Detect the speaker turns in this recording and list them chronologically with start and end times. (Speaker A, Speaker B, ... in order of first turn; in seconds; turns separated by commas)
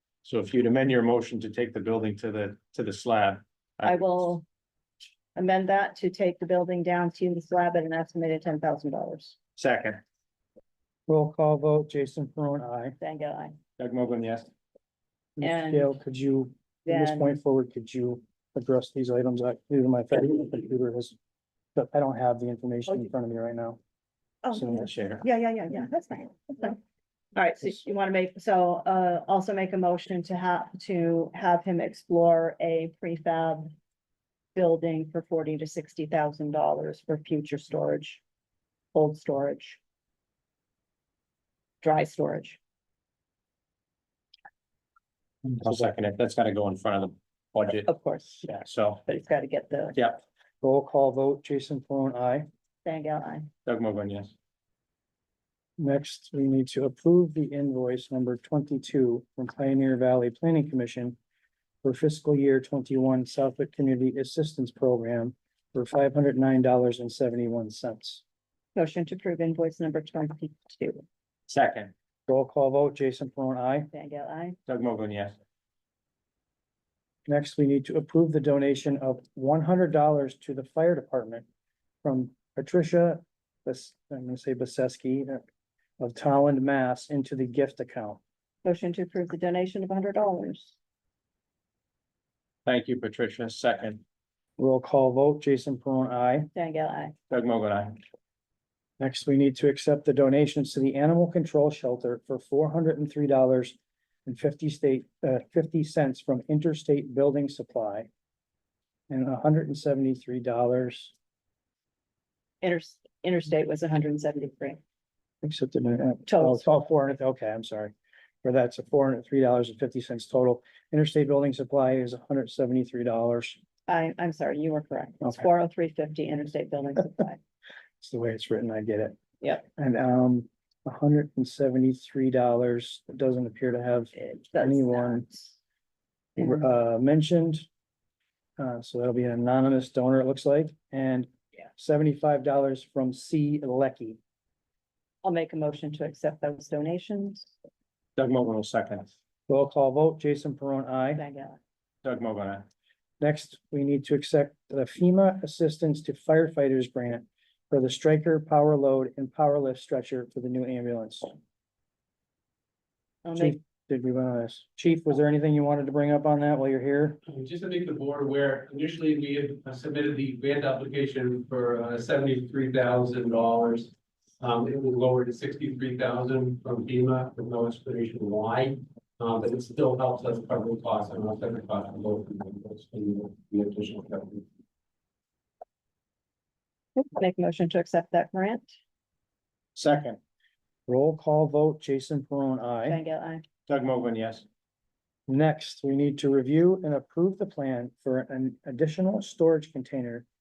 Speaker A: 0.2-4.0, Speaker B: 3.9-4.5, Speaker B: 5.3-9.4, Speaker A: 9.6-10.0, Speaker C: 11.1-13.0, Speaker B: 13.0-13.6, Speaker A: 13.8-14.5, Speaker C: 15.4-21.1, Speaker B: 15.4-15.9, Speaker B: 16.9-17.4, Speaker C: 21.8-23.8, Speaker B: 24.4-26.8, Speaker C: 24.5-25.2, Speaker B: 27.4-33.7, Speaker B: 34.5-38.2, Speaker B: 38.9-39.8, Speaker B: 41.8-42.6, Speaker C: 45.5-45.9, Speaker A: 45.6-47.9, Speaker B: 47.7-48.5, Speaker A: 48.5-49.0, Speaker B: 49.0-50.0, Speaker A: 50.0-50.2, Speaker C: 50.6-52.5, Speaker B: 52.8-53.5, Speaker A: 53.7-54.3, Speaker C: 55.8-61.2, Speaker C: 61.8-68.2, Speaker B: 68.8-71.0, Speaker A: 71.5-71.9, Speaker C: 72.3-73.9, Speaker B: 73.9-74.6, Speaker A: 74.7-75.3, Speaker C: 77.3-81.5, Speaker C: 82.0-85.4, Speaker C: 86.0-88.2, Speaker B: 88.6-90.8, Speaker A: 92.7-94.0, Speaker C: 94.6-96.5, Speaker B: 96.5-97.2, Speaker A: 97.3-98.0, Speaker C: 99.0-108.1, Speaker C: 109.1-111.1, Speaker B: 112.6-114.8, Speaker C: 115.4-123.6, Speaker B: 116.3-116.7, Speaker B: 123.9-127.4, Speaker C: 128.0-129.2, Speaker C: 129.8-135.3, Speaker B: 134.2-135.6, Speaker C: 136.4-137.7, Speaker C: 138.6-144.2, Speaker B: 145.2-147.5, Speaker A: 148.2-149.1, Speaker C: 149.5-151.2, Speaker B: 151.2-151.6, Speaker A: 152.0-152.7, Speaker C: 153.2-161.4, Speaker B: 163.2-163.6, Speaker C: 163.3-167.2, Speaker D: 167.3-184.5, Speaker B: 187.0-188.7, Speaker A: 189.8-190.2, Speaker C: 190.9-193.0, Speaker B: 192.9-193.4, Speaker A: 193.7-194.4, Speaker C: 195.3-200.3